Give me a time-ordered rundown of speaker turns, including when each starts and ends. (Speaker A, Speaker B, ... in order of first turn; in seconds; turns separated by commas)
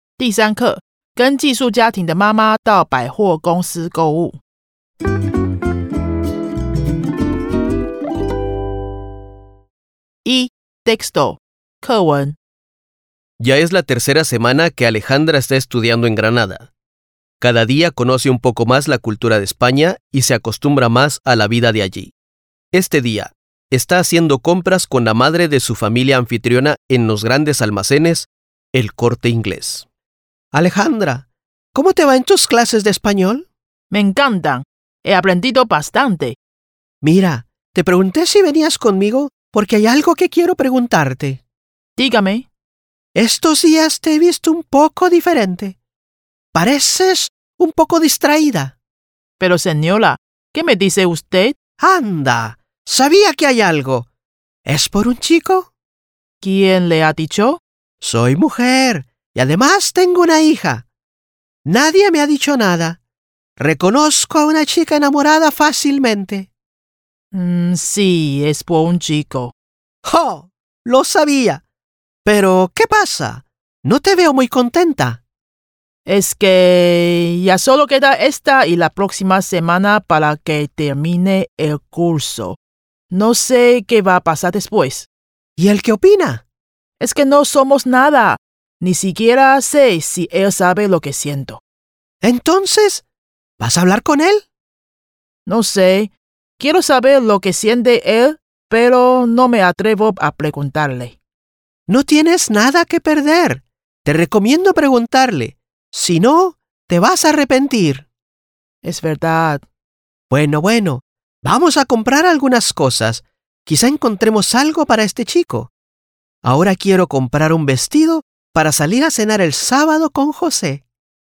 Speaker A: 0.2-4.4, Speaker A: 10.2-12.4, Speaker B: 13.4-16.7, Speaker B: 17.4-22.1, Speaker B: 22.7-29.9, Speaker B: 30.5-33.5, Speaker A: 33.9-36.4, Speaker B: 37.0-41.4, Speaker A: 42.0-42.5, Speaker B: 43.1-45.8, Speaker B: 46.5-48.8, Speaker A: 49.4-51.5, Speaker B: 51.8-54.1, Speaker B: 54.6-55.7, Speaker A: 56.4-57.6, Speaker B: 58.0-60.8, Speaker B: 61.6-63.0, Speaker B: 63.6-66.5, Speaker A: 67.3-69.5, Speaker B: 70.0-71.6, Speaker B: 72.2-75.2, Speaker A: 76.0-82.6, Speaker A: 83.1-85.1, Speaker B: 85.6-86.4, Speaker A: 87.0-91.6, Speaker B: 92.2-93.0, Speaker B: 93.6-94.5, Speaker A: 95.5-101.2, Speaker B: 101.9-108.0, Speaker A: 108.8-109.6, Speaker B: 110.3-115.7, Speaker B: 116.4-120.8